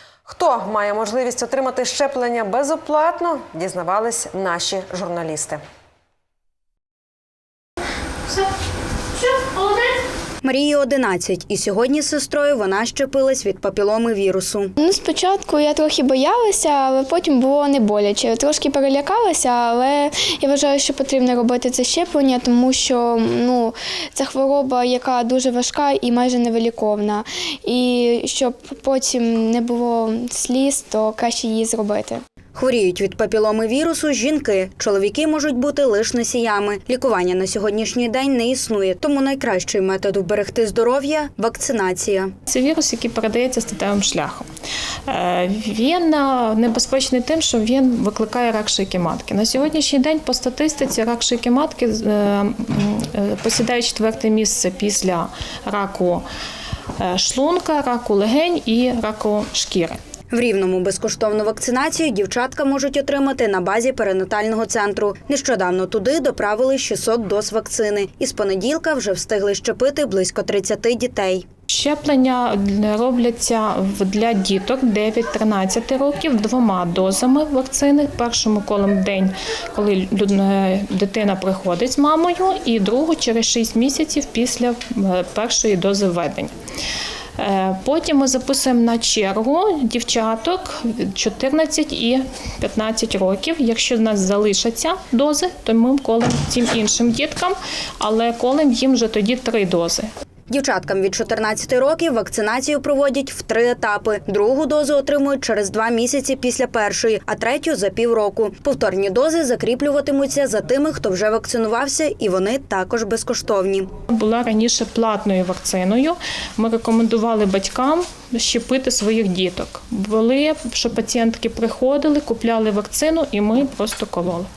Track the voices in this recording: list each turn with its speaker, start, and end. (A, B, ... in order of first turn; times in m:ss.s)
0:00.2-0:05.6 A
0:09.1-0:10.0 B
0:10.4-0:14.7 C
0:14.8-0:32.2 D
0:32.5-0:42.3 C
0:42.5-0:44.4 B
0:45.1-0:56.2 B
0:57.0-1:00.0 B
1:00.3-1:11.4 C
1:11.7-1:26.5 B
1:27.4-1:40.1 B
1:40.5-1:53.9 C
1:54.1-2:04.5 B